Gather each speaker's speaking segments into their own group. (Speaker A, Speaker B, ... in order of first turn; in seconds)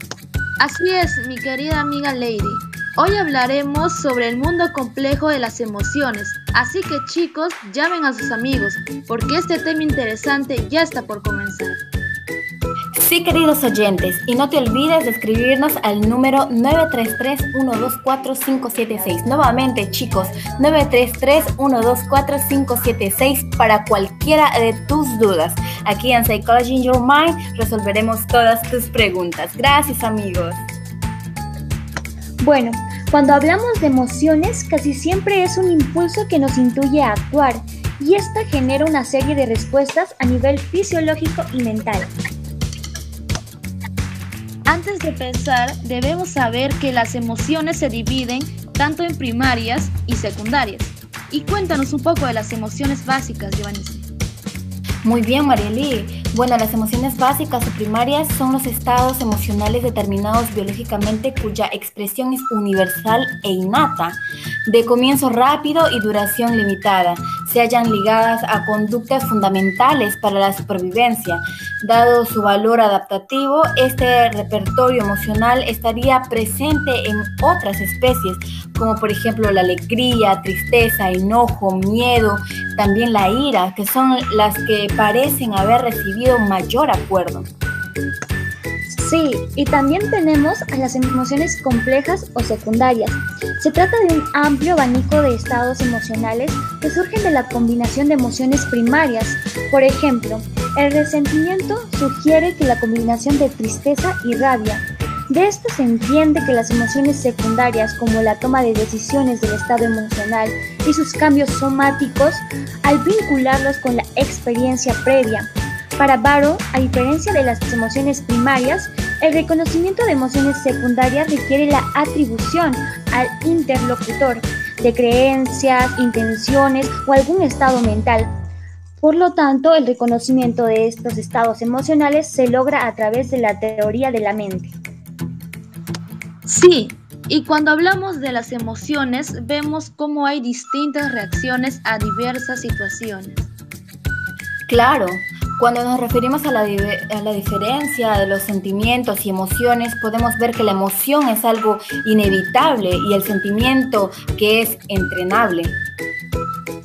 Speaker A: 0.6-11.8, 44.6-54.1, 136.4-143.5
Speaker B: 13.0-30.7, 55.0-87.5, 144.7-155.8
Speaker C: 32.4-42.1, 88.9-128.3, 129.0-134.7